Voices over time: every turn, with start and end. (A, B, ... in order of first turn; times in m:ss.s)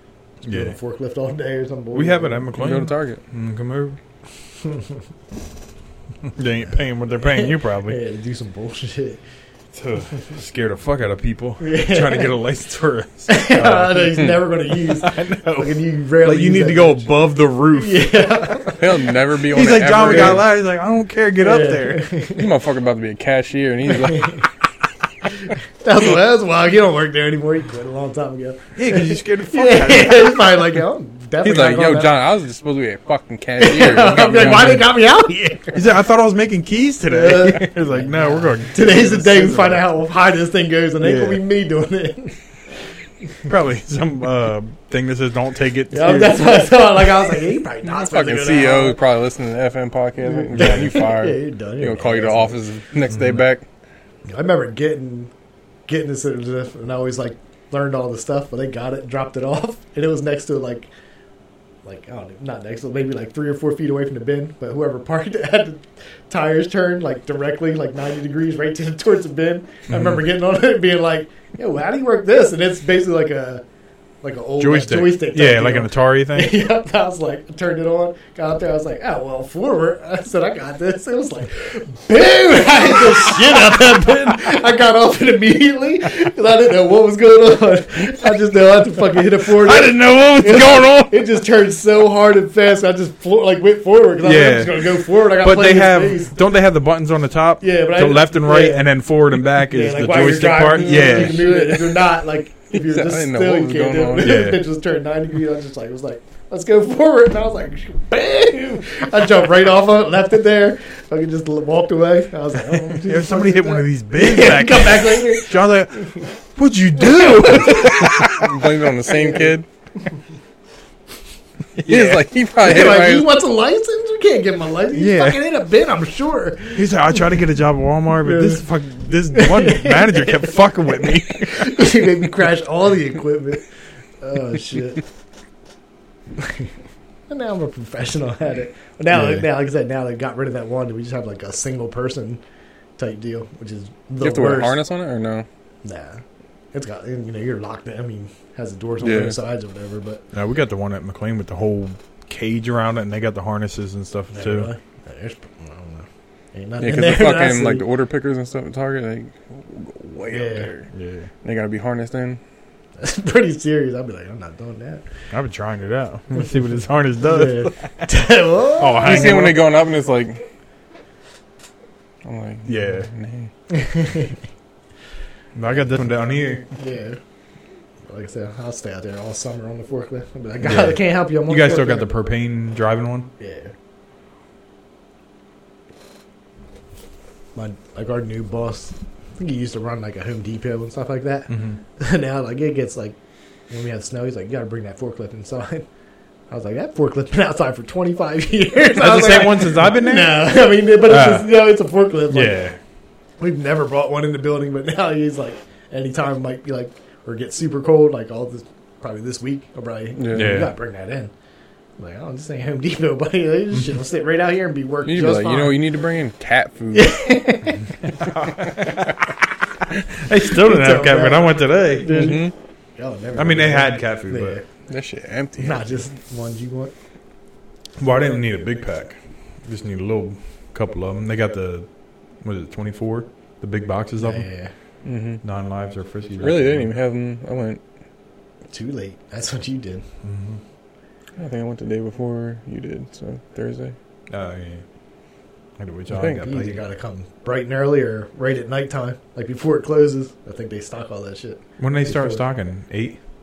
0:00.4-0:00.8 A
0:00.5-0:02.5 B
0:01.9-0:04.0 A
0:02.5-0:03.2 C
0:04.6-0:05.0 B
0:06.3-0:08.0 A
0:07.2-0:09.2 B
0:09.7-0:18.1 A
0:11.6-0:12.3 B
0:13.3-0:17.1 B
0:17.7-0:19.0 B
0:18.8-0:20.4 C
0:19.5-0:22.1 A
0:20.0-0:20.4 B
0:21.4-0:22.5 B
0:22.3-0:24.4 C
0:24.0-0:24.4 B
0:25.4-0:32.2 B
0:28.8-0:30.4 A
0:31.4-0:34.9 C
0:33.6-0:35.8 B
0:35.7-0:39.8 A
0:37.1-0:42.4 B
0:41.0-0:41.4 A
0:43.4-0:46.6 A
0:45.9-0:49.0 B
0:47.8-0:53.6 C
0:50.2-0:52.6 B
0:53.1-0:53.4 A
0:54.3-0:55.3 B
0:55.9-1:00.9 B
1:01.8-1:13.6 B
1:09.9-1:10.2 A
1:14.2-1:36.4 B
1:14.6-1:16.6 A
1:29.4-1:31.2 A
1:34.2-1:41.5 A
1:37.6-1:38.9 B
1:39.7-1:56.2 B
1:40.9-1:42.0 C
1:42.7-1:44.4 C
1:44.2-1:44.6 A
1:53.0-1:58.7 A
1:57.0-1:58.3 B
1:57.8-1:59.6 C
1:59.1-1:59.5 B
2:01.8-2:02.2 A
2:01.8-2:03.3 C
2:02.6-2:06.8 B
2:04.9-2:05.4 A
2:06.7-2:12.0 A
2:08.2-2:08.6 B
2:09.3-2:13.7 B
2:14.2-2:15.0 B
2:16.4-2:16.7 B
2:17.3-2:22.4 B
2:23.0-2:24.8 B
2:24.2-2:25.5 C
2:25.8-2:26.2 B
2:26.7-2:30.2 B
2:29.0-2:29.4 C
2:30.3-2:34.7 A
2:34.3-2:37.8 B
2:36.8-2:40.9 C
2:40.3-2:40.7 B
2:40.9-2:41.3 A
2:41.4-2:42.4 C
2:43.0-2:45.0 B
2:45.3-2:48.1 A
2:47.2-2:49.5 B
2:48.8-2:49.6 A
2:49.0-2:50.4 C
2:52.2-2:53.5 C
2:52.6-2:53.1 A
2:53.7-2:54.3 B
2:55.5-2:56.7 A
2:56.7-2:57.2 B
2:58.1-3:02.1 B
3:00.6-3:03.3 A
3:03.4-3:03.7 B
3:07.5-3:13.2 B
3:11.5-3:11.8 A
3:13.7-3:15.8 B
3:16.5-3:22.6 B
3:18.9-3:20.5 A
3:21.0-3:21.5 A
3:22.3-3:22.8 A
3:23.4-3:31.3 B
3:30.2-3:30.6 C
3:30.3-3:30.7 A
3:32.0-3:35.8 B
3:35.0-3:37.2 C
3:36.9-3:37.9 B
3:38.2-3:39.2 A
3:39.9-3:42.1 A
3:40.6-3:44.6 B
3:42.0-3:42.5 C
3:43.4-3:44.6 A
3:44.9-3:46.0 C
3:45.6-3:46.9 B
3:48.0-3:51.9 A
3:52.4-3:54.4 A
3:54.2-3:54.7 B
3:55.0-3:55.4 C
3:55.4-3:56.9 A
3:56.4-3:57.8 C
3:58.7-4:00.0 B
4:00.2-4:00.6 A
4:01.4-4:04.0 C
4:04.3-4:04.8 A
4:05.8-4:06.8 A
4:06.1-4:06.5 C
4:06.4-4:12.4 B
4:11.8-4:13.2 A